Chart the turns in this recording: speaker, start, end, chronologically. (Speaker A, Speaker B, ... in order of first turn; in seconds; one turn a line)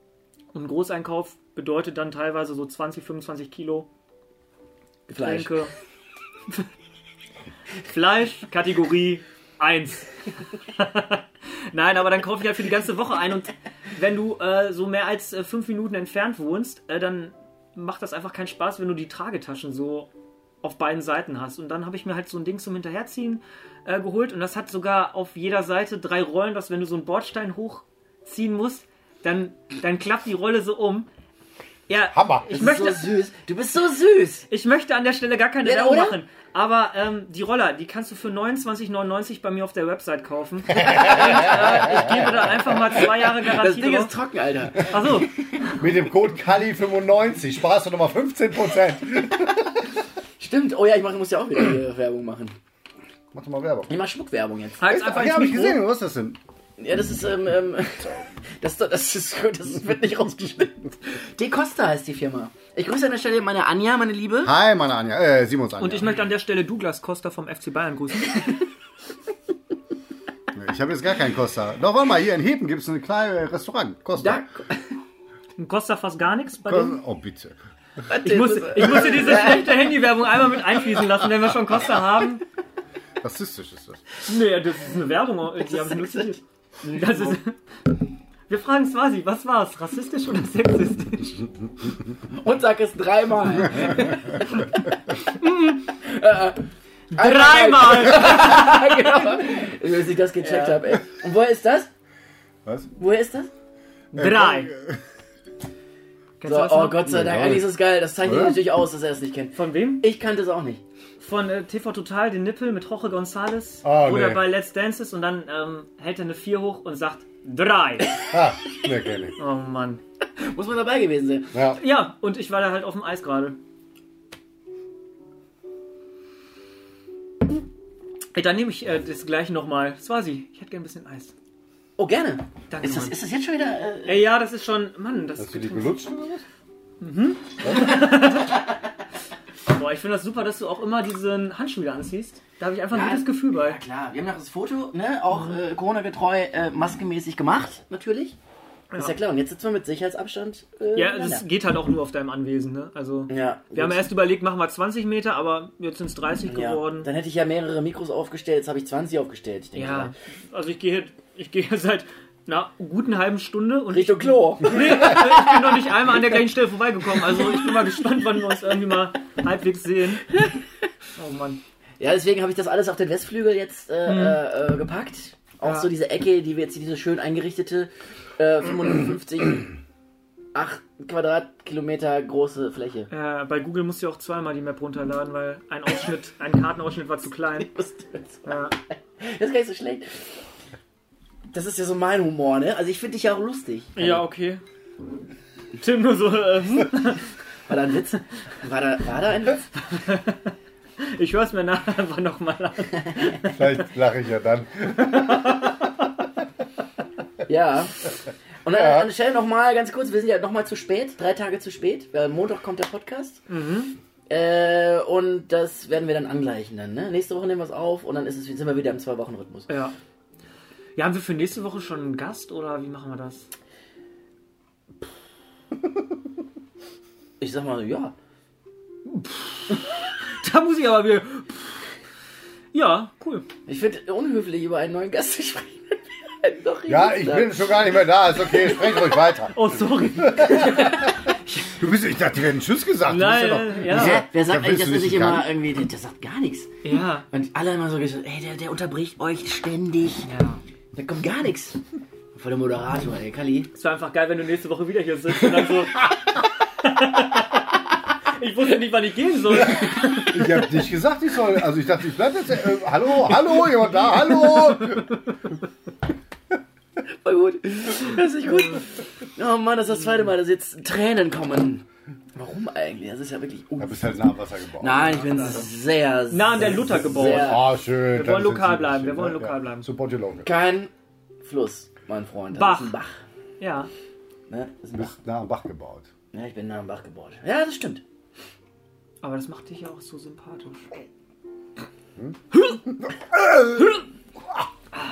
Speaker A: 0.5-3.9
Speaker B: 5.1-5.5
Speaker A: 5.1-5.7
Speaker A: 7.8-20.1
Speaker A: 20.6-31.1
Speaker A: 31.9-33.1
Speaker C: 32.1-32.5
Speaker B: 32.5-34.5
Speaker A: 34.5-44.1
Speaker B: 35.6-36.2
Speaker B: 41.0-41.8
Speaker B: 43.5-45.2
Speaker A: 44.8-45.4
Speaker C: 45.7-49.9
Speaker B: 50.4-52.6
Speaker C: 53.3-53.9
Speaker B: 53.9-54.8
Speaker A: 54.8-55.8
Speaker C: 54.9-56.4
Speaker B: 56.8-64.5
Speaker C: 64.4-66.2
Speaker A: 65.8-68.6
Speaker C: 70.5-74.4
Speaker B: 74.2-75.0
Speaker A: 75.6-77.0
Speaker C: 76.7-77.6
Speaker B: 78.1-79.9
Speaker A: 78.2-82.4
Speaker C: 83.2-84.0
Speaker A: 84.2-87.6
Speaker B: 85.6-87.4
Speaker A: 88.5-91.4
Speaker B: 92.3-101.9
Speaker A: 97.1-98.8
Speaker A: 100.4-100.9
Speaker C: 102.6-102.9
Speaker B: 103.0-103.5
Speaker A: 104.1-104.7
Speaker C: 104.1-105.0
Speaker A: 106.4-107.2
Speaker B: 106.4-110.8
Speaker C: 107.0-108.6
Speaker A: 109.5-110.0
Speaker A: 111.2-118.1
Speaker C: 113.8-114.5
Speaker C: 118.3-119.3
Speaker A: 119.4-120.0
Speaker B: 120.4-121.5
Speaker C: 121.5-121.8
Speaker A: 121.8-123.6
Speaker A: 128.3-131.3
Speaker B: 132.0-134.2
Speaker A: 132.7-133.2
Speaker A: 134.1-136.0
Speaker C: 135.4-136.4
Speaker A: 137.0-138.7
Speaker C: 137.6-137.9
Speaker A: 139.7-143.8
Speaker B: 142.9-148.4
Speaker B: 148.9-151.4
Speaker A: 150.9-157.1
Speaker B: 153.3-154.1
Speaker B: 156.5-160.1
Speaker A: 159.8-170.3
Speaker B: 163.9-165.8
Speaker A: 171.2-171.6
Speaker B: 172.0-179.7
Speaker A: 174.1-174.4
Speaker A: 175.6-175.9
Speaker B: 180.5-183.1
Speaker A: 183.1-187.7
Speaker B: 187.6-188.6
Speaker A: 188.4-188.7
Speaker B: 189.2-190.2
Speaker B: 191.5-194.1
Speaker A: 193.9-194.6
Speaker A: 195.8-197.3
Speaker B: 197.7-199.7
Speaker A: 199.9-203.6
Speaker C: 203.4-205.5
Speaker A: 205.2-205.8
Speaker B: 207.4-208.0
Speaker B: 208.6-213.4
Speaker A: 213.5-213.9
Speaker B: 214.3-219.7
Speaker A: 219.7-219.9
Speaker A: 220.9-223.5
Speaker B: 227.4-228.1
Speaker A: 229.1-231.9
Speaker A: 232.7-233.4
Speaker B: 233.7-237.7
Speaker C: 236.9-241.0
Speaker A: 239.5-241.4
Speaker C: 241.7-245.5
Speaker A: 243.0-244.2
Speaker B: 243.9-250.3
Speaker A: 246.8-247.2
Speaker A: 250.2-250.6
Speaker B: 250.9-251.8
Speaker B: 252.3-253.7
Speaker A: 253.7-260.7
Speaker C: 260.3-265.2
Speaker B: 267.1-274.2
Speaker C: 273.8-275.5
Speaker B: 274.8-277.6
Speaker A: 276.3-279.9
Speaker C: 276.6-280.5
Speaker B: 280.4-280.9
Speaker B: 281.4-283.2
Speaker A: 282.5-282.9
Speaker A: 283.6-283.9
Speaker B: 284.5-285.1
Speaker C: 284.9-286.1
Speaker B: 286.3-288.0
Speaker A: 289.2-291.0
Speaker C: 292.2-294.0